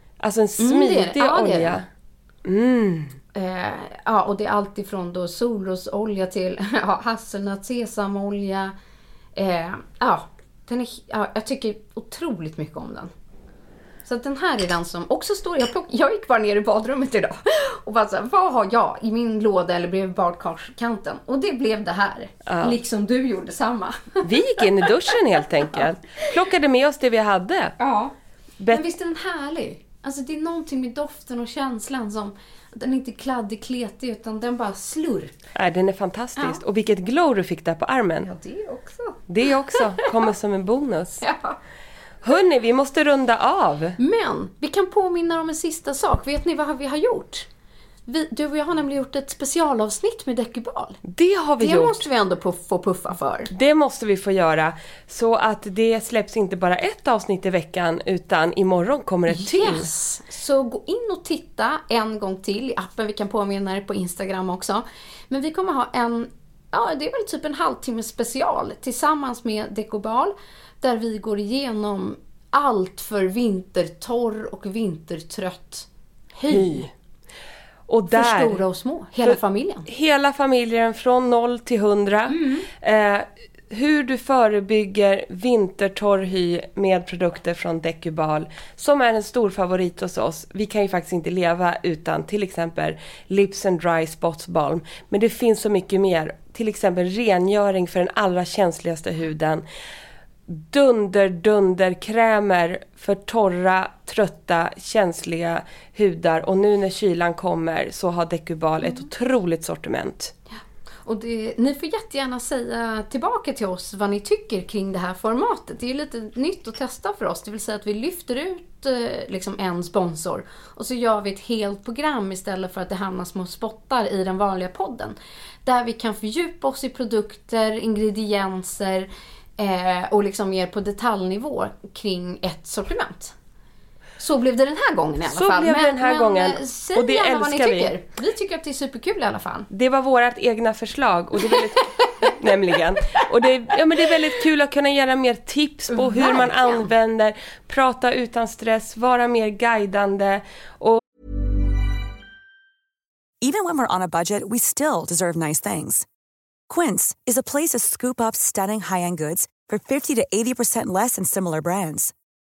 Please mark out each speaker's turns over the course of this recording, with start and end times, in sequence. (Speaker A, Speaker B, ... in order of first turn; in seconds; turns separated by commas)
Speaker A: 0.2-1.9, Speaker B: 0.6-1.8, Speaker A: 2.5-3.2, Speaker B: 3.3-8.7, Speaker B: 9.4-13.1, Speaker B: 14.1-25.2, Speaker A: 22.5-22.8, Speaker A: 24.2-27.7, Speaker B: 27.8-28.1, Speaker B: 28.7-35.4, Speaker A: 35.5-38.3, Speaker B: 38.2-39.2, Speaker A: 39.3-41.3, Speaker B: 39.8-40.2, Speaker B: 41.2-41.6, Speaker A: 42.2-44.0, Speaker B: 44.0-47.5, Speaker B: 48.1-51.0, Speaker A: 51.1-52.1, Speaker B: 51.6-53.5, Speaker A: 53.5-59.9, Speaker B: 59.3-76.9, Speaker A: 76.5-76.9, Speaker A: 77.9-78.6, Speaker B: 78.1-79.9, Speaker A: 79.2-99.6, Speaker B: 82.3-82.7, Speaker A: 100.5-110.3, Speaker B: 111.0-133.3, Speaker B: 134.2-139.7, Speaker A: 135.2-137.9, Speaker A: 139.7-151.0, Speaker B: 141.4-142.3, Speaker B: 145.9-146.9, Speaker C: 153.4-156.1, Speaker C: 156.7-162.1